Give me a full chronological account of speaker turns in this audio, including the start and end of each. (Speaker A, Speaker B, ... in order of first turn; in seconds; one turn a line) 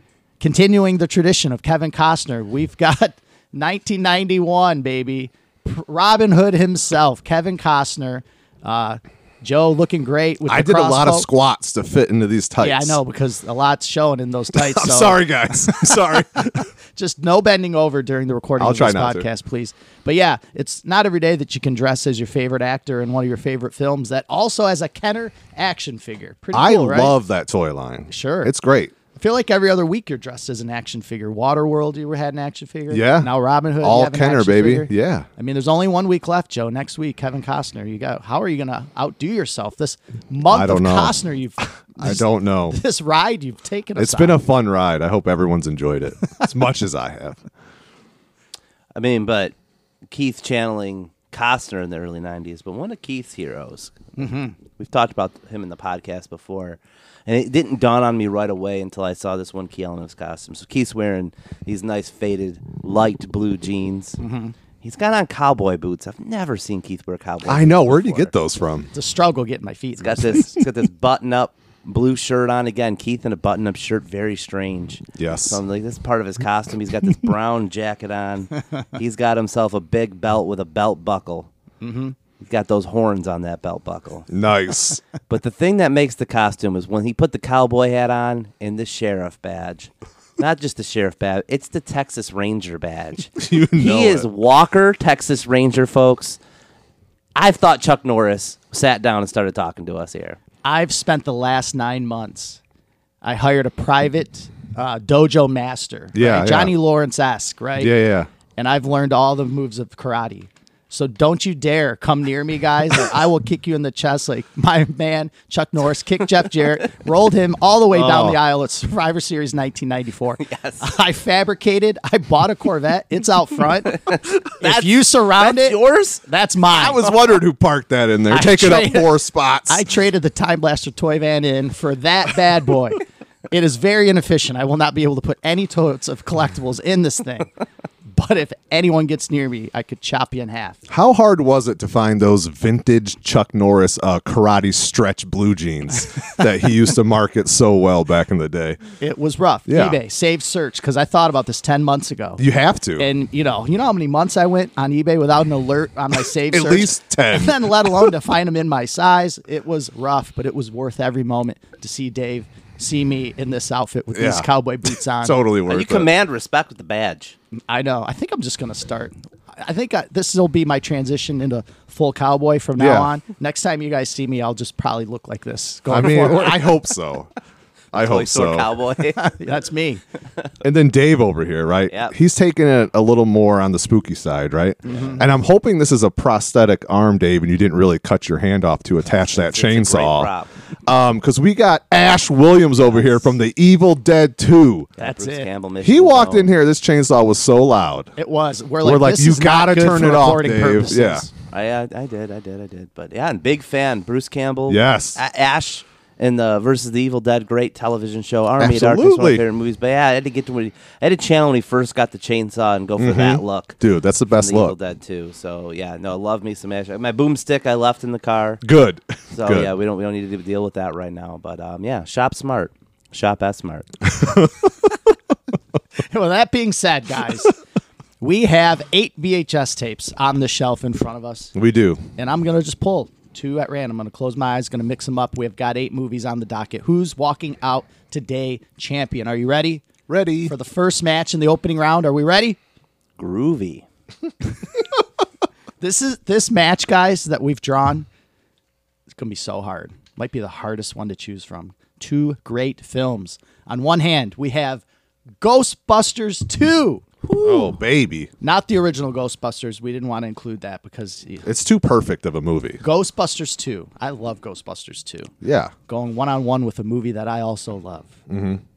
Speaker A: 0.4-11.3
Speaker B: 10.4-13.0
Speaker A: 12.6-27.2
Speaker B: 14.5-16.7
Speaker B: 18.6-19.2
Speaker B: 26.5-28.9
Speaker A: 28.1-28.5
Speaker A: 29.1-44.4
Speaker B: 32.9-35.3
Speaker B: 40.4-41.2
Speaker B: 42.0-42.8
Speaker B: 44.0-47.5
Speaker C: 48.9-49.5
Speaker C: 50.1-54.1
Speaker A: 54.2-54.5
Speaker C: 54.7-64.2
Speaker A: 64.2-64.5
Speaker C: 64.8-68.3
Speaker B: 67.4-68.9
Speaker A: 68.9-70.5
Speaker C: 70.0-81.5
Speaker B: 75.2-75.6
Speaker A: 81.8-82.2
Speaker C: 82.4-84.3
Speaker B: 84.3-85.0
Speaker C: 85.3-96.4
Speaker B: 93.4-94.2
Speaker C: 97.3-100.4
Speaker A: 100.6-102.6
Speaker A: 103.2-107.9
Speaker B: 106.1-106.7
Speaker B: 107.8-108.3
Speaker A: 108.6-124.0
Speaker B: 117.9-118.4
Speaker C: 120.4-120.9
Speaker C: 123.9-126.2
Speaker A: 124.6-127.0
Speaker B: 126.7-129.8
Speaker A: 128.3-129.1
Speaker A: 129.7-137.5
Speaker A: 138.1-140.8
Speaker B: 140.9-148.8
Speaker A: 149.0-152.4
Speaker B: 149.7-150.0
Speaker B: 152.4-153.1
Speaker A: 153.0-165.4
Speaker B: 156.5-158.1
Speaker B: 164.1-166.1
Speaker C: 165.7-167.3
Speaker A: 167.7-176.8
Speaker B: 172.8-173.1
Speaker B: 175.9-177.3
Speaker B: 177.9-178.7
Speaker C: 177.9-179.2
Speaker A: 179.2-180.0
Speaker B: 180.6-190.3
Speaker C: 181.9-182.2
Speaker A: 184.8-185.2
Speaker C: 189.3-190.5
Speaker B: 190.8-194.9
Speaker A: 192.9-193.3
Speaker C: 195.0-196.5
Speaker A: 195.0-195.5
Speaker B: 195.8-198.1
Speaker A: 198.2-201.3
Speaker B: 198.8-201.3
Speaker C: 201.5-213.8
Speaker B: 204.7-205.2
Speaker B: 208.6-209.4
Speaker B: 213.0-214.7
Speaker C: 214.3-218.6
Speaker B: 218.6-219.7
Speaker C: 219.3-224.0
Speaker B: 224.1-224.7
Speaker A: 226.1-227.5
Speaker A: 228.2-231.5
Speaker B: 231.5-232.0
Speaker A: 232.2-239.8
Speaker B: 240.1-240.5
Speaker A: 240.4-242.6
Speaker C: 243.2-243.8
Speaker A: 245.8-248.1
Speaker A: 249.1-254.8
Speaker A: 255.4-257.0
Speaker C: 257.2-257.7
Speaker B: 257.4-258.3
Speaker A: 258.4-261.5
Speaker B: 261.4-262.8
Speaker A: 262.8-265.3
Speaker B: 265.4-265.7
Speaker A: 265.9-268.1
Speaker B: 268.3-268.6